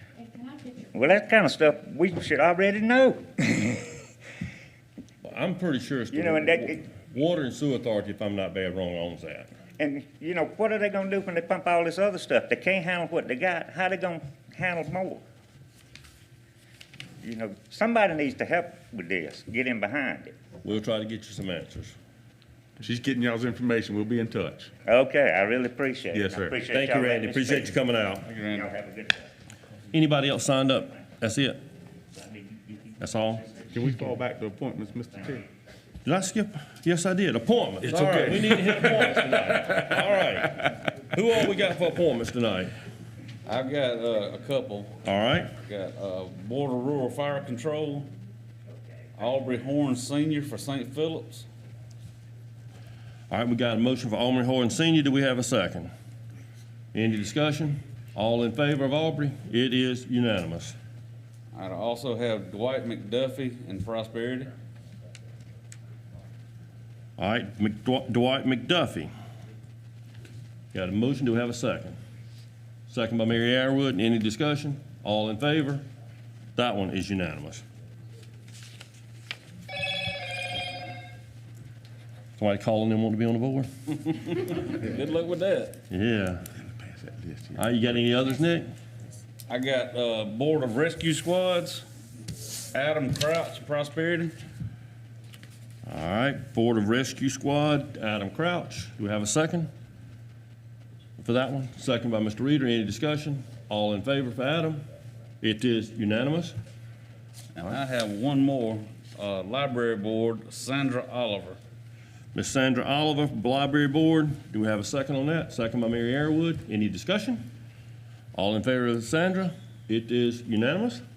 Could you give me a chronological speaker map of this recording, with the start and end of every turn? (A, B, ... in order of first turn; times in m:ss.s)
0:00.9-0:03.9 A
0:05.2-0:09.5 B
0:06.1-0:06.8 A
0:09.8-0:15.2 A
0:17.2-0:20.4 A
0:20.6-0:22.0 B
0:22.8-0:24.7 C
0:24.9-0:27.7 A
0:26.1-0:26.6 C
0:26.7-0:28.3 B
0:28.3-0:28.7 D
0:28.5-0:29.3 A
0:29.9-0:31.6 B
0:33.0-0:33.6 B
0:33.7-0:35.5 C
0:36.0-0:42.8 B
0:37.8-0:39.2 C
0:43.5-0:48.1 D
0:45.0-0:45.5 B
0:49.2-0:51.5 D
0:53.3-0:55.9 B
0:56.9-1:00.8 B
1:01.5-1:04.6 D
1:07.2-1:09.1 B
1:10.7-1:12.0 B
1:12.9-1:15.9 B
1:16.6-1:17.6 B
1:22.4-1:24.0 B
1:24.4-1:25.8 D
1:25.9-1:26.4 B
1:26.8-1:27.6 C
1:27.6-1:28.7 B
1:29.5-1:31.8 D
1:32.7-1:34.4 D
1:35.9-1:39.7 B
1:41.2-1:44.8 B
1:45.4-1:46.6 B
1:47.6-1:51.6 D
1:52.3-1:57.5 B
1:58.3-2:01.0 B